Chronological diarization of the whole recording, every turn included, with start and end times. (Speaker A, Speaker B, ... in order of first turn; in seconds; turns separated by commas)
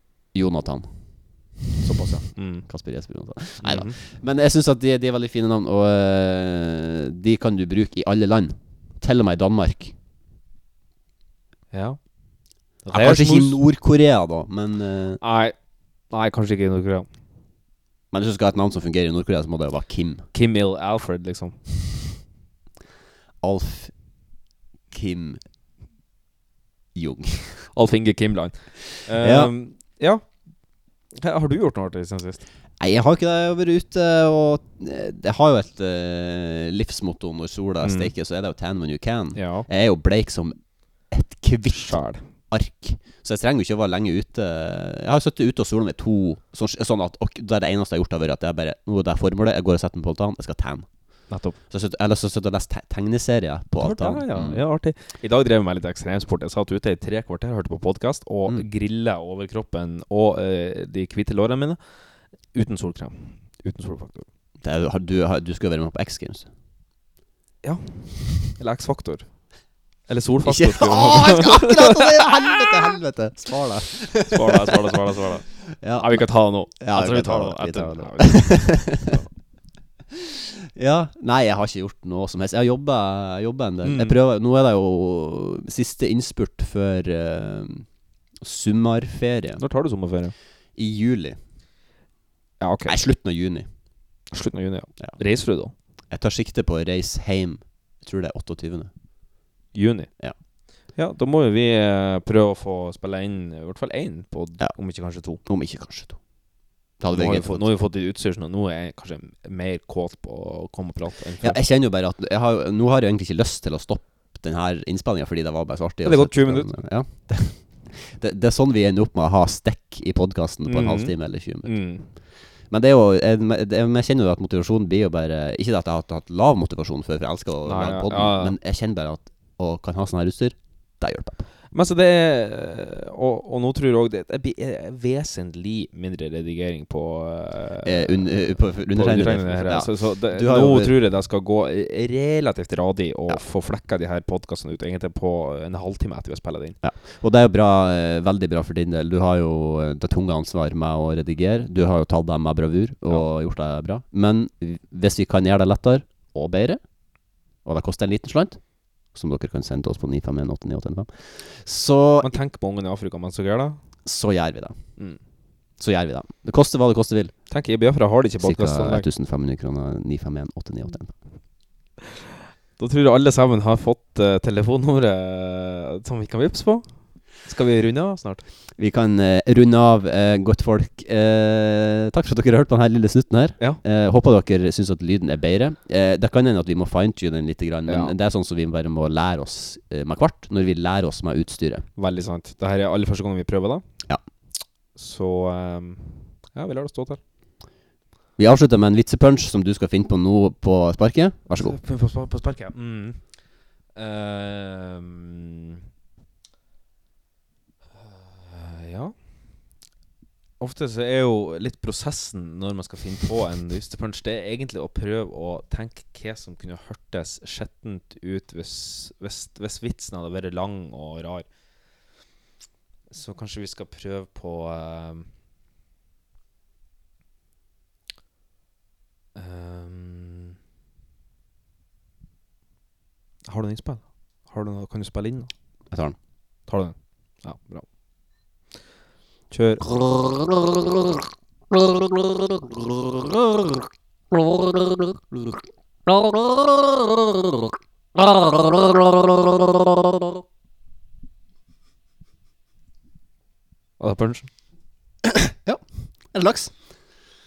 Speaker A: 0.3-9.9, Speaker B: 1.8-2.7, Speaker B: 3.6-4.0, Speaker B: 11.7-13.6, Speaker A: 12.9-15.2, Speaker B: 15.2-17.1, Speaker A: 18.1-20.3, Speaker B: 20.3-21.6, Speaker A: 23.4-23.9, Speaker A: 24.9-25.4, Speaker A: 26.9-27.7, Speaker B: 27.7-30.5, Speaker A: 29.1-29.5, Speaker B: 31.1-32.4, Speaker A: 32.8-40.6, Speaker B: 37.8-38.1, Speaker B: 39.4-39.7, Speaker A: 41.1-42.0, Speaker B: 41.7-42.2, Speaker A: 42.5-50.9, Speaker B: 51.3-51.6, Speaker A: 51.7-54.6, Speaker B: 53.8-61.8, Speaker B: 62.5-64.3, Speaker A: 64.6-66.5, Speaker B: 67.6-69.4, Speaker B: 70.1-72.5, Speaker A: 70.5-74.6, Speaker B: 74.2-79.3, Speaker A: 75.7-79.2, Speaker A: 80.2-87.9, Speaker B: 83.8-84.2, Speaker A: 88.4-89.6, Speaker B: 89.6-90.3, Speaker A: 90.8-91.4, Speaker B: 92.6-93.0, Speaker A: 92.9-93.7, Speaker B: 94.3-95.7, Speaker A: 96.1-98.9, Speaker B: 99.7-100.1, Speaker B: 100.9-105.4, Speaker A: 105.4-106.2, Speaker A: 107.0-107.7, Speaker B: 107.1-111.6, Speaker A: 111.4-121.7, Speaker B: 116.0-116.7, Speaker B: 120.7-122.1, Speaker A: 122.7-131.5, Speaker B: 127.6-128.6, Speaker B: 131.7-146.8, Speaker A: 137.8-140.9, Speaker A: 146.8-156.8, Speaker A: 157.6-162.3, Speaker B: 162.2-163.8, Speaker A: 164.1-164.8, Speaker A: 165.8-167.3, Speaker B: 167.5-169.1, Speaker A: 168.4-171.2, Speaker B: 172.8-178.5, Speaker A: 178.8-191.9, Speaker B: 187.9-188.2, Speaker B: 192.0-193.8, Speaker B: 194.9-197.2, Speaker A: 198.4-201.8, Speaker B: 201.6-203.3, Speaker B: 203.9-205.8, Speaker B: 207.9-209.1, Speaker B: 210.6-221.5, Speaker B: 223.1-225.3, Speaker B: 229.3-230.6, Speaker B: 233.5-235.5, Speaker A: 235.9-236.2, Speaker B: 236.7-237.9, Speaker B: 239.5-239.9, Speaker A: 246.1-246.7, Speaker A: 248.2-249.8, Speaker B: 254.0-254.5, Speaker A: 255.3-256.7